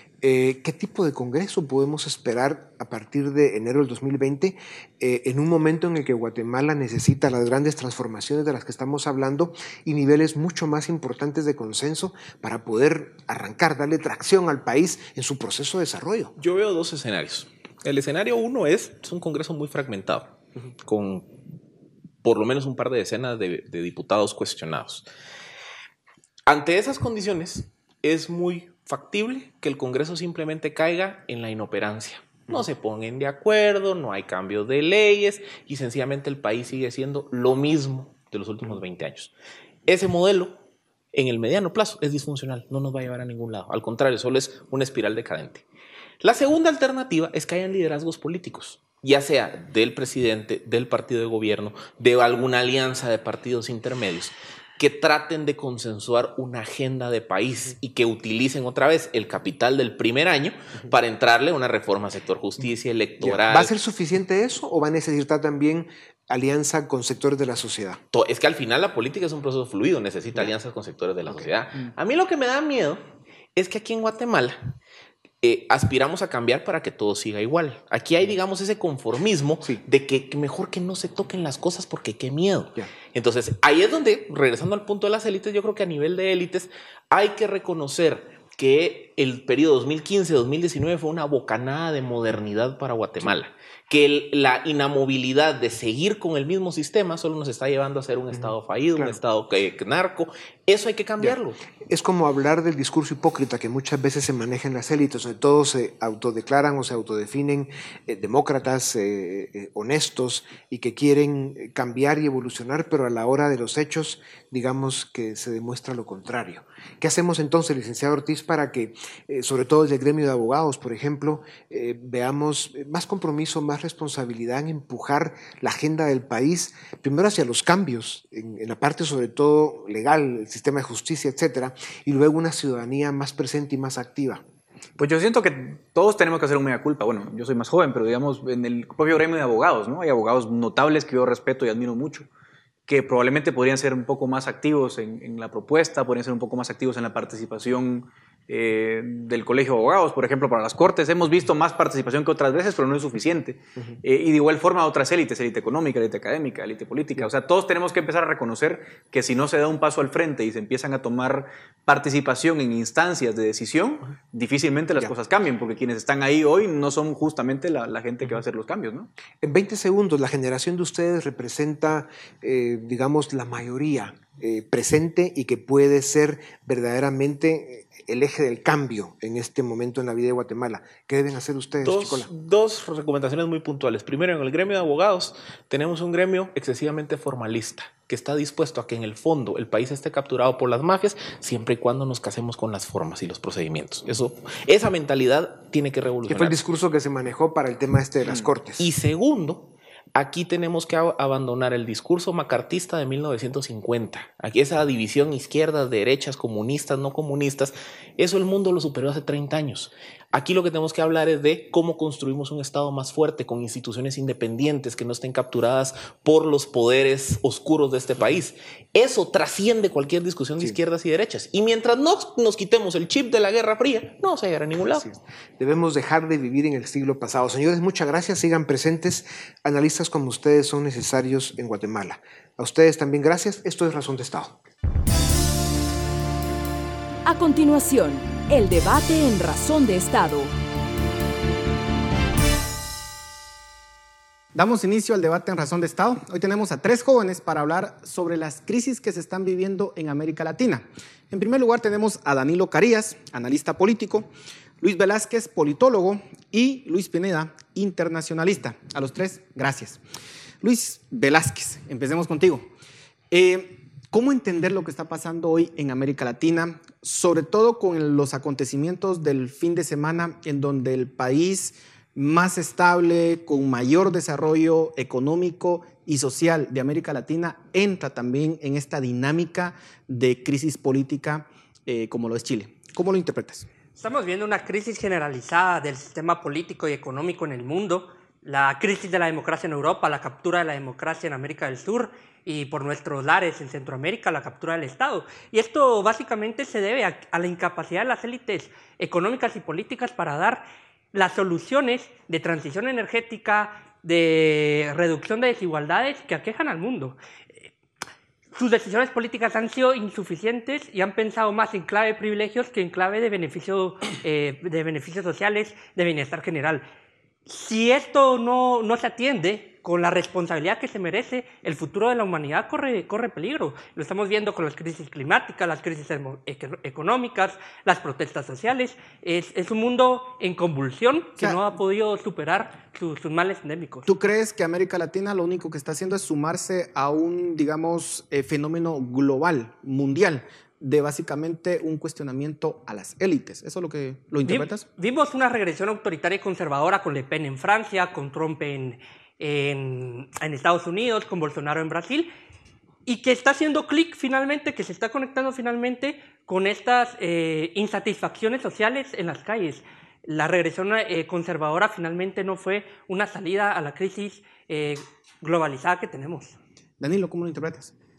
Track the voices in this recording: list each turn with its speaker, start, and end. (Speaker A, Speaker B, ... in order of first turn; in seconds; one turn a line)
Speaker A: 0.2-16.3
Speaker B: 16.4-21.4
Speaker B: 22.2-25.0
Speaker B: 26.5-39.3
Speaker B: 39.8-40.6
Speaker B: 41.1-45.6
Speaker B: 46.2-63.7
Speaker A: 63.2-68.0
Speaker B: 68.1-73.0
Speaker B: 73.5-74.7
Speaker B: 75.4-101.6
Speaker A: 98.3-99.2
Speaker A: 101.2-134.4
Speaker C: 135.0-142.3
Speaker C: 142.9-169.1
Speaker A: 169.4-182.3
Speaker B: 181.8-196.6
Speaker A: 196.3-198.8
Speaker B: 198.8-225.1
Speaker A: 224.9-234.6
Speaker D: 237.2-240.5
Speaker E: 244.5-260.0
Speaker E: 260.6-262.7
Speaker E: 263.3-283.7
Speaker F: 284.0-307.7
Speaker F: 308.5-316.9
Speaker F: 317.5-334.1
Speaker E: 334.1-344.9
Speaker F: 344.4-352.3
Speaker F: 353.1-366.6
Speaker E: 367.0-367.9